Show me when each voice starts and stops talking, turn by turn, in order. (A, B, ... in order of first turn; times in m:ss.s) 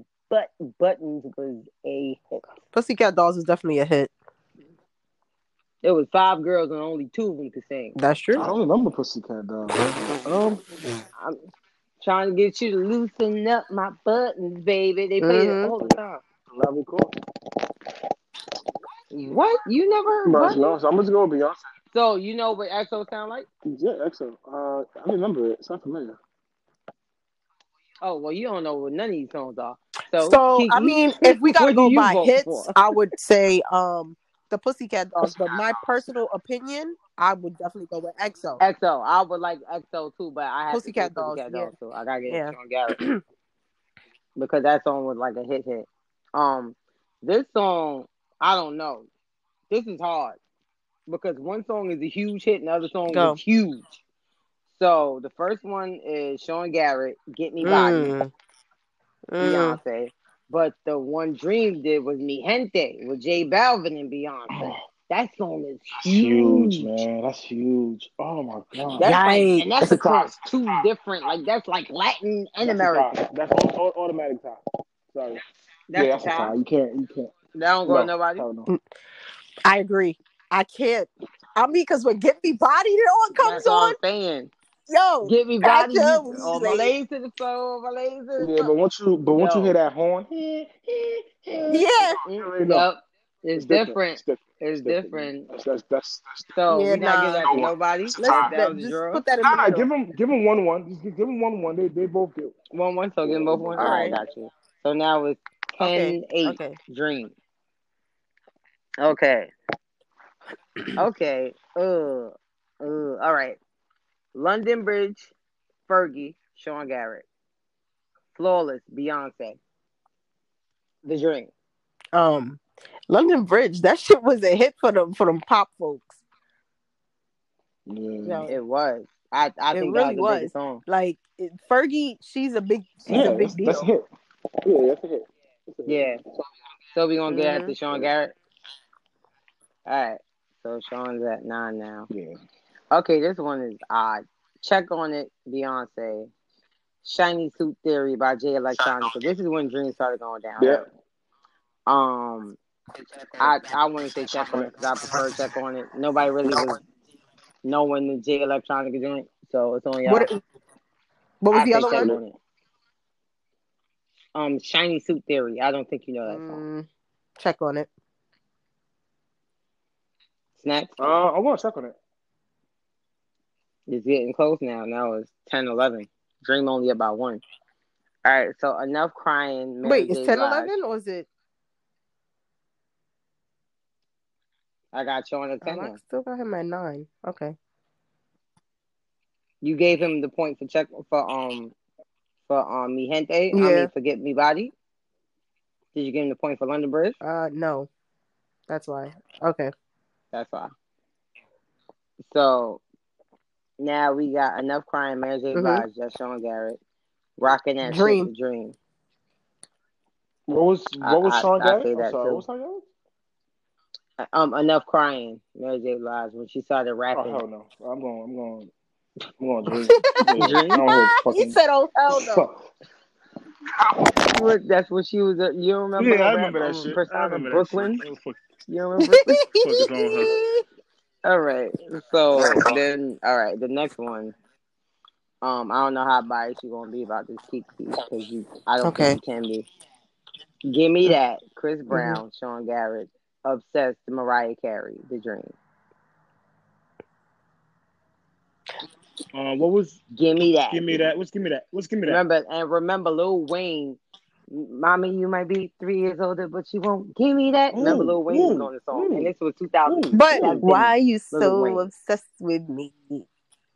0:00.3-0:02.4 A
0:02.7-0:04.1 B
0:05.8-0:08.0 A
0:08.0-0:08.5 B
0:08.4-0:10.6 C
0:12.0-0:16.2 A
0:15.2-0:15.7 B
0:16.5-0:17.1 C
0:19.1-0:20.8 A
0:20.2-0:21.7 C
0:21.9-0:23.5 A
0:23.7-0:26.2 C
0:28.0-0:32.8 A
0:30.2-0:38.6 B
0:35.2-0:35.7 C
0:38.6-0:43.0 A
0:40.7-0:41.7 B
0:42.3-0:43.2 B
0:44.4-0:49.1 A
0:49.7-0:50.4 A
0:51.1-0:53.8 A
0:53.1-0:53.4 B
0:54.7-0:58.1 A
0:57.6-0:58.3 B
0:59.3-0:59.8 B
0:59.4-1:07.0 A
1:04.5-1:04.8 C
1:06.0-1:09.1 C
1:09.0-1:13.1 A
1:09.0-1:10.0 B
1:09.8-1:10.8 C
1:12.6-1:14.6 C
1:15.1-1:15.4 C
1:15.9-1:16.5 A
1:15.9-1:17.3 C
1:17.6-1:18.4 A
1:17.9-1:18.7 C
1:19.6-1:24.0 B
1:23.4-1:24.5 A
1:24.9-1:26.9 B
1:25.2-1:28.7 A
1:28.4-1:32.9 C
1:29.3-1:29.7 A
1:31.7-1:32.2 B
1:32.2-1:35.5 A
1:33.6-1:36.6 C
1:36.5-1:39.2 A
1:36.7-1:37.5 B
1:37.4-1:38.5 C
1:38.2-1:39.9 B
1:39.4-1:42.6 C
1:42.7-1:47.4 A
1:43.2-1:44.2 C
1:43.8-1:44.2 B
1:45.8-1:46.8 B
1:49.0-1:49.5 A
1:51.0-1:53.6 A
1:54.3-1:55.3 A
1:55.9-1:57.3 A
1:58.4-1:59.6 A
2:01.0-2:01.5 A
2:02.1-2:06.2 B
2:07.9-2:08.5 C
2:08.2-2:08.5 B
2:08.5-2:10.8 A
2:09.7-2:13.9 B
2:13.1-2:14.1 C
2:14.6-2:16.1 C
2:15.9-2:16.2 A
2:16.9-2:18.4 A
2:17.3-2:17.8 B
2:19.9-2:22.1 A
2:22.1-2:22.4 C
2:22.9-2:26.3 A
2:27.0-2:30.8 A
2:30.6-2:30.8 C
2:31.9-2:32.6 A
2:33.4-2:36.8 A
2:34.2-2:35.2 C
2:37.6-2:40.3 A
2:40.1-2:40.4 B
2:41.4-2:42.1 B
2:41.5-2:42.4 A
2:41.9-2:42.2 C
2:44.4-2:46.6 A
2:46.3-2:46.9 B
2:47.4-2:47.9 B
2:50.6-2:51.2 A
2:51.0-2:52.0 C
2:53.9-2:57.4 A
2:58.2-3:00.8 A
2:59.8-3:01.3 B
3:04.9-3:06.0 A
3:05.6-3:07.6 B
3:09.6-3:11.7 A
3:12.5-3:14.7 A
3:13.5-3:13.9 B
3:16.0-3:17.2 A
3:17.2-3:17.9 B
3:18.7-3:19.7 B
3:20.3-3:20.7 A
3:22.3-3:22.8 A
3:23.8-3:26.8 A
3:25.5-3:25.8 B
3:27.4-3:28.8 A
3:27.8-3:28.3 B
3:30.5-3:32.9 C
3:31.0-3:32.4 A
3:34.2-3:37.4 A
3:37.1-3:38.7 C
3:39.4-3:41.6 C
3:39.9-3:42.4 B
3:40.4-3:40.8 A
3:42.1-3:42.6 C
3:43.8-3:44.2 C
3:44.3-3:48.0 A
3:46.0-3:48.4 C
3:48.7-3:49.4 A
3:49.0-3:50.4 B
3:49.5-3:50.4 C
3:51.2-3:54.3 A
3:52.4-3:52.7 C
3:55.4-3:59.7 A
3:58.8-3:59.2 B
4:00.7-4:05.6 A
4:01.9-4:02.2 B
4:09.3-4:10.0 C
4:10.2-4:11.0 A
4:10.7-4:12.2 C
4:12.0-4:14.0 A
4:14.5-4:21.9 A
4:17.7-4:19.3 C
4:19.9-4:20.7 C
4:20.1-4:23.3 B